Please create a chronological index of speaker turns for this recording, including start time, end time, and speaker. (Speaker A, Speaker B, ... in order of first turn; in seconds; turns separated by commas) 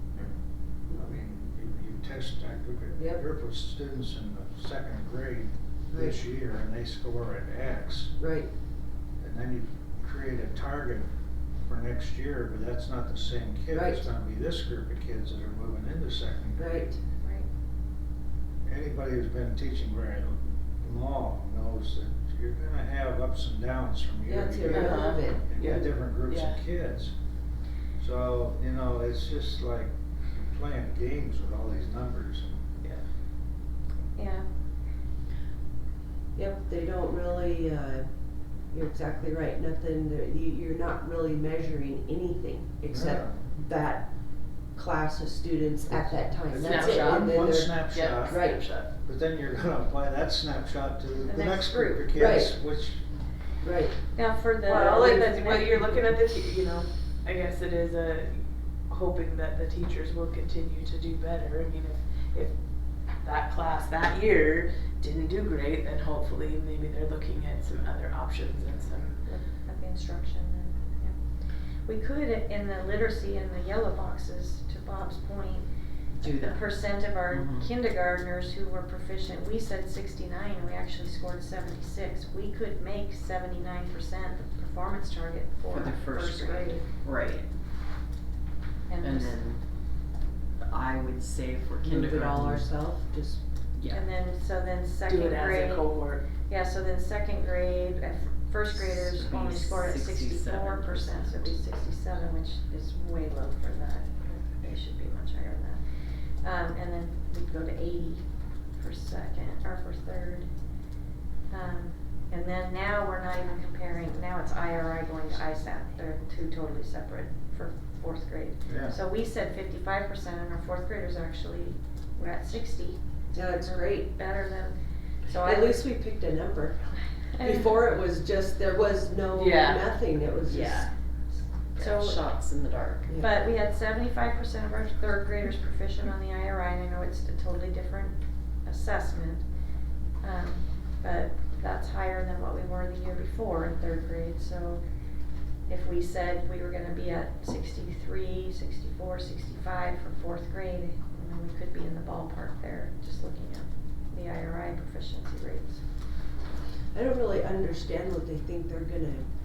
Speaker A: 0.9-8.1, Speaker B: 5.9-6.2, Speaker B: 8.2-8.5, Speaker A: 9.2-11.1, Speaker A: 11.7-16.9, Speaker B: 13.7-14.0, Speaker B: 16.6-17.0, Speaker C: 17.2-17.5, Speaker A: 18.6-27.1, Speaker B: 24.3-25.4, Speaker D: 24.7-26.6, Speaker A: 28.0-32.6, Speaker C: 34.1-34.4, Speaker B: 36.4-38.0, Speaker B: 38.7-44.1, Speaker A: 42.9-43.4, Speaker B: 44.7-48.6, Speaker A: 45.9-53.0, Speaker D: 46.6-48.9, Speaker C: 51.2-52.1, Speaker B: 52.1-52.5, Speaker B: 53.6-54.0, Speaker C: 54.1-55.9, Speaker D: 54.6-62.5, Speaker D: 63.2-69.2, Speaker C: 69.2-71.2, Speaker C: 71.8-75.6, Speaker E: 76.2-76.7, Speaker C: 76.2-86.8, Speaker E: 77.3-77.7, Speaker E: 85.7-87.5, Speaker C: 88.9-89.3, Speaker E: 89.0-89.6, Speaker E: 90.6-92.7, Speaker B: 91.8-93.4, Speaker E: 93.8-94.0, Speaker C: 93.9-95.9, Speaker D: 95.0-96.3, Speaker C: 96.4-105.8, Speaker E: 98.7-101.5, Speaker C: 106.4-108.2, Speaker C: 108.8-110.5, Speaker C: 111.5-124.8, Speaker A: 118.7-119.0, Speaker B: 123.3-124.1, Speaker C: 125.3-125.7, Speaker B: 125.4-130.9, Speaker C: 127.3-127.7, Speaker E: 129.3-129.9, Speaker E: 130.4-130.9, Speaker E: 131.7-133.1, Speaker C: 131.8-132.2, Speaker C: 133.2-139.4, Speaker C: 140.2-144.8, Speaker C: 145.7-155.8, Speaker B: 156.9-159.2